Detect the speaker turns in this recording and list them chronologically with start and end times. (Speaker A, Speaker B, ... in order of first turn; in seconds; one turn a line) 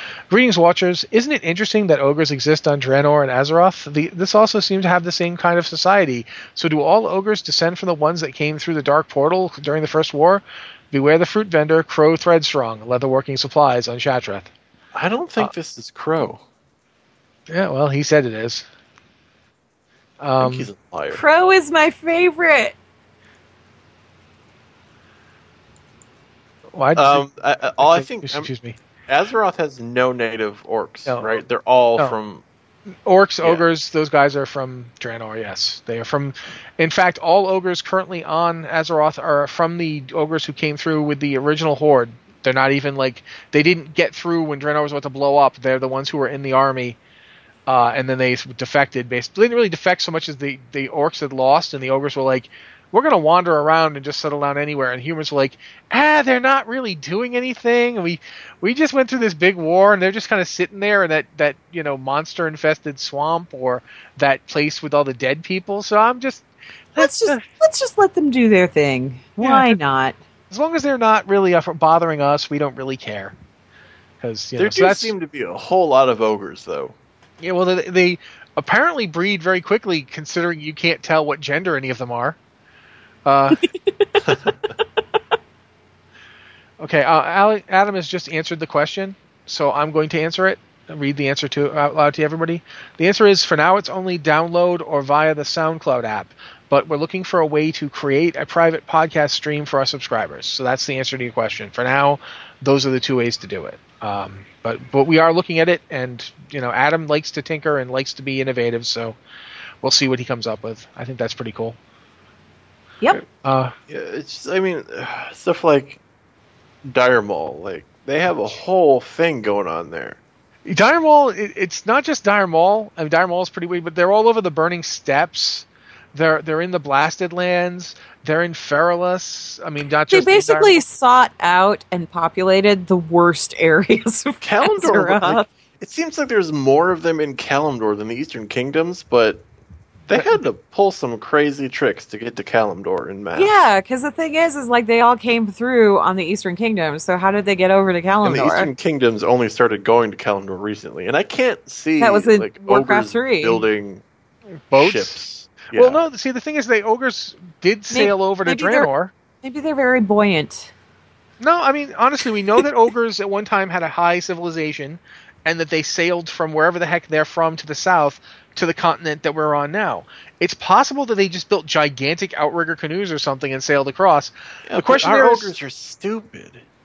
Speaker A: 0.3-14.5
Speaker B: 14.9-16.4
Speaker A: 17.5-18.7
Speaker A: 20.2-20.7
Speaker B: 20.4-21.2
Speaker C: 21.1-22.8
Speaker A: 26.8-28.8
Speaker B: 26.9-28.5
Speaker B: 29.1-32.4
Speaker A: 33.1-47.0
Speaker A: 47.7-67.5
Speaker C: 67.0-70.2
Speaker A: 69.4-69.8
Speaker A: 70.5-73.3
Speaker A: 74.2-75.1
Speaker B: 74.6-77.0
Speaker A: 77.4-82.4
Speaker A: 83.3-83.6
Speaker C: 83.7-84.1
Speaker B: 84.2-84.6
Speaker A: 86.8-109.2
Speaker A: 109.8-111.8
Speaker A: 113.4-113.8
Speaker B: 113.9-116.0
Speaker B: 116.8-120.2
Speaker A: 120.7-130.8
Speaker C: 130.1-135.5
Speaker B: 134.4-139.5
Speaker B: 140.1-143.5
Speaker A: 140.1-140.4
Speaker C: 143.4-148.7
Speaker B: 148.2-154.0
Speaker C: 152.0-153.7
Speaker A: 154.7-155.2
Speaker B: 154.8-156.0
Speaker A: 155.7-159.1
Speaker C: 157.9-158.9
Speaker C: 159.4-160.7
Speaker A: 161.4-175.5
Speaker B: 174.7-176.6